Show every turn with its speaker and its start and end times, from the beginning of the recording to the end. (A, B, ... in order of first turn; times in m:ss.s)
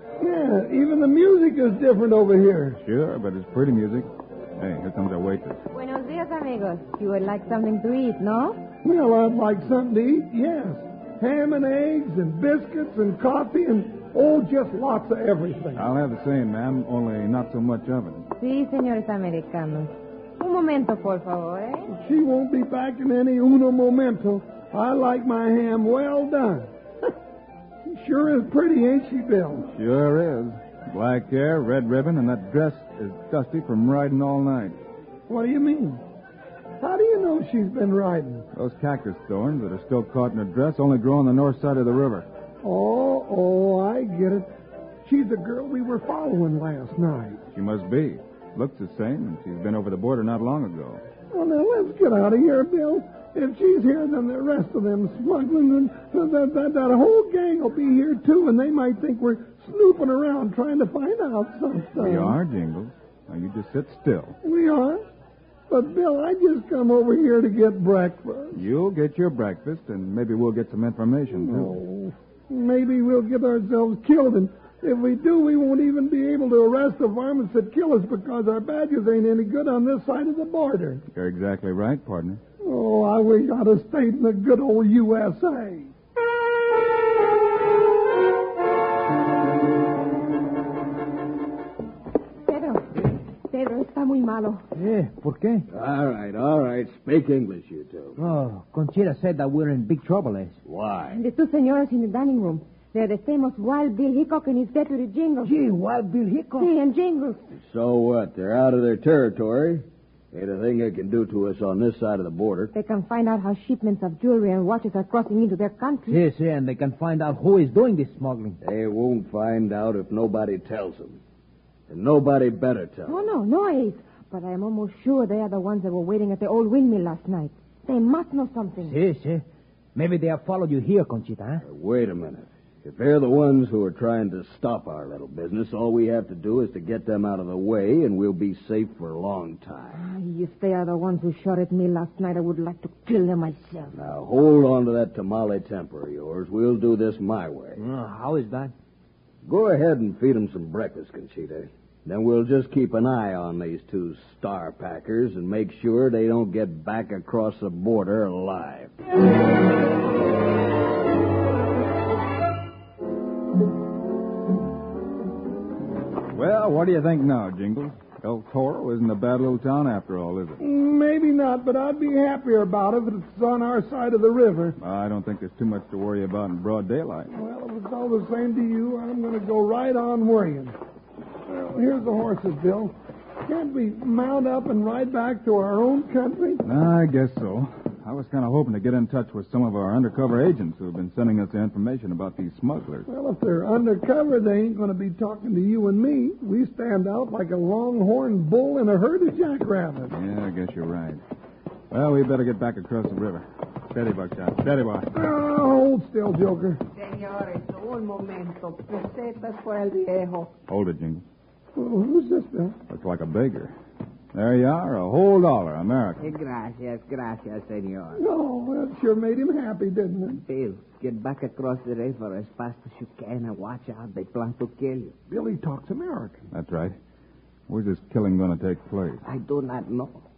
0:00.2-0:02.8 A
0:02.8-0:05.6 B
0:05.7-0:08.6 C
0:08.8-0:15.8 A
0:15.7-0:18.3 B
0:18.4-0:21.9 C
0:21.9-0:26.7 A
0:27.8-0:29.7 A
0:29.7-0:34.8 B
0:35.3-0:36.0 A
0:36.8-0:38.5 A
0:38.5-0:42.3 B
0:42.6-0:44.5 A
0:45.0-0:47.4 A
0:47.5-0:51.0 B
0:51.3-1:02.4 A
1:02.0-1:04.4 B
1:04.4-1:05.0 A
1:05.7-1:08.6 A
1:08.5-1:11.8 B
1:11.3-1:21.0 A
1:21.1-1:22.4 B
1:22.6-1:25.9 A
1:32.4-1:34.6 C
1:34.7-1:35.6 D
1:35.7-1:38.2 E
1:38.2-1:40.6 D
1:40.6-1:41.2 E
1:41.1-1:45.5 C
1:45.5-1:46.3 D
1:45.8-1:46.6 F
1:46.6-1:47.5 C
1:47.6-1:52.7 E
1:52.7-1:56.2 C
1:56.1-1:58.6 D
1:58.6-2:01.2 E
2:01.9-2:03.2 E
2:03.1-2:09.0 C
2:08.8-2:09.4 D
2:09.9-2:11.6 D
2:11.6-2:20.0 E
2:19.9-2:23.9 C
2:23.9-2:27.8 E
2:27.8-2:28.7 D
2:29.4-2:38.9 E
2:46.3-2:50.6 B
2:50.6-2:54.8 A
2:54.8-2:57.3 B
2:57.3-3:00.8 A
3:01.4-3:06.6 A
3:06.6-3:13.1 B
3:13.1-3:20.1 A
3:20.1-3:21.2 B
3:21.9-3:25.1 B
3:25.1-3:26.8 A
3:26.9-3:30.5 F
3:30.7-3:31.2 B
3:31.8-3:32.8 A
3:32.9-3:33.7 B
3:34.3-3:36.2 B
3:36.2-3:38.2 F
3:38.1-3:40.4 A
3:40.3-3:45.1 F
3:45.3-3:46.4 A
3:46.5-3:47.0 B
3:47.7-3:49.2 B
3:49.2-3:50.2 F